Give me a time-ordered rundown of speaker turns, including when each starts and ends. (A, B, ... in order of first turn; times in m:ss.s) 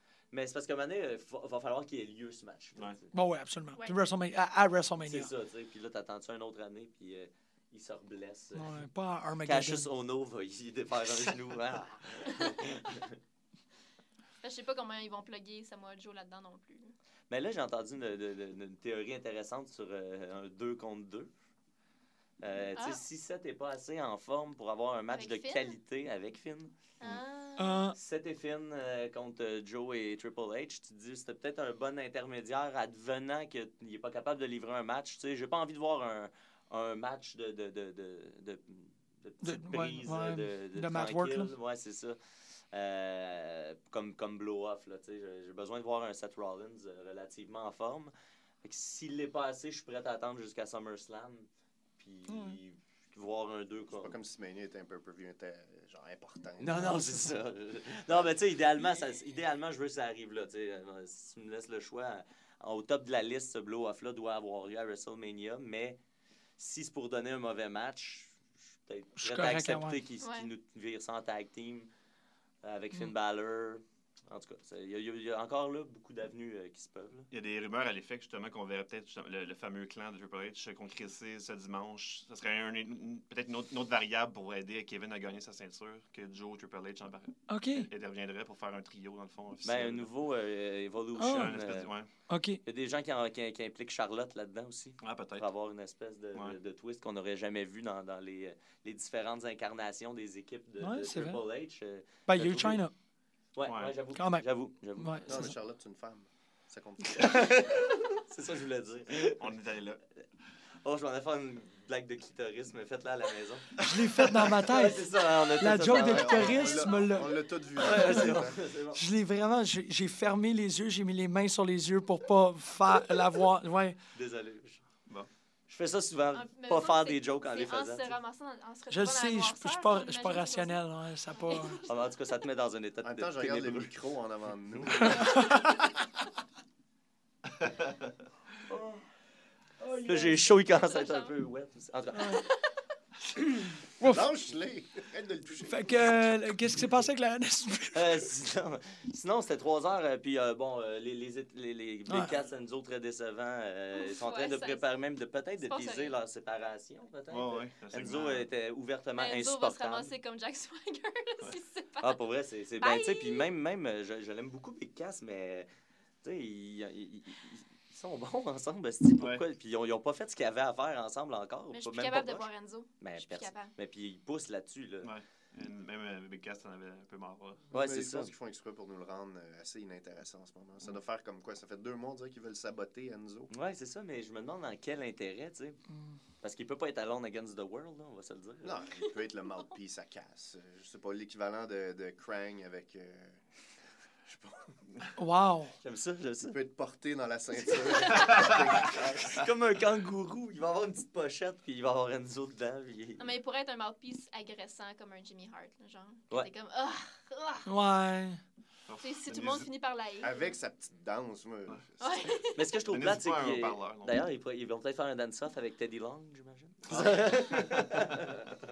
0:00.3-0:03.0 A
0:03.1-0:05.3 B
0:05.1-0:08.8 A
0:08.6-0:09.9 B
0:09.4-0:13.1 A
0:14.4-0:16.9 C
0:17.3-0:21.3 A
0:22.4-0:26.7 A
0:22.7-0:23.0 C
0:25.1-0:25.8 C
0:27.0-0:27.8 C
0:27.6-0:28.0 B
0:28.0-0:42.2 A
0:39.4-0:41.5 B
0:42.7-0:48.1 A
0:48.6-0:51.5 A
0:52.0-0:54.2 A
0:52.3-0:52.6 B
0:54.0-0:57.3 D
0:56.6-1:06.0 A
1:06.6-1:11.9 A
1:09.2-1:10.0 B
1:10.2-1:10.5 C
1:12.6-1:17.3 A
1:17.3-1:30.1 E
1:27.5-1:27.9 B
1:29.6-1:31.9 A
1:31.2-1:31.6 B
1:31.3-1:32.1 E
1:32.3-1:32.6 B
1:32.6-1:42.8 A
1:35.0-1:35.5 E
1:40.8-1:41.4 B
1:42.3-1:42.9 B
1:43.6-1:45.5 A
1:43.6-1:44.0 E
1:44.2-1:44.4 B
1:45.0-1:45.5 B
1:45.3-1:47.7 D
1:47.2-1:49.6 A
1:49.4-1:50.0 E
1:50.8-1:57.2 A
1:53.8-1:57.3 B
1:55.8-1:58.6 D
1:57.8-1:59.0 A
1:58.9-2:04.0 B
2:04.2-2:04.8 A
2:05.7-2:08.2 A
2:06.3-2:11.9 C
2:08.9-2:11.8 B
2:11.8-2:14.0 A
2:13.0-2:15.6 D
2:14.8-2:15.3 A
2:15.1-2:15.6 B
2:17.6-2:17.9 E
2:18.7-2:19.0 D
2:20.0-2:22.4 A
2:20.6-2:21.3 C
2:22.2-2:22.8 C
2:24.0-2:24.2 B
2:24.0-2:26.2 D
2:25.7-2:28.3 B
2:27.9-2:40.1 A
2:32.1-2:32.4 B
2:34.0-2:34.8 C
2:35.6-2:36.1 C
2:37.3-2:38.5 E
2:39.2-2:42.2 C
2:42.0-2:45.7 A
2:42.8-2:43.5 C
2:46.2-2:52.5 A
2:49.2-2:49.4 E
2:51.7-2:53.7 C
2:53.0-2:55.1 A
2:55.0-2:57.7 E
2:57.7-3:03.5 D
2:57.7-2:58.3 A
3:03.5-3:05.8 A
3:06.4-3:08.8 A
3:08.6-3:13.4 D
3:14.2-3:14.8 D
3:15.2-3:15.7 B
3:15.8-3:16.6 A
3:16.4-3:19.3 D
3:17.7-3:23.3 A
3:18.1-3:18.3 C
3:18.3-3:18.7 E
3:23.2-3:27.7 C
3:27.7-3:28.4 B
3:28.9-3:29.7 E
3:29.0-3:30.5 C
3:30.2-3:32.4 D
3:32.0-3:32.8 C
3:32.6-3:38.6 A
3:32.8-3:34.2 E
3:36.9-3:37.8 E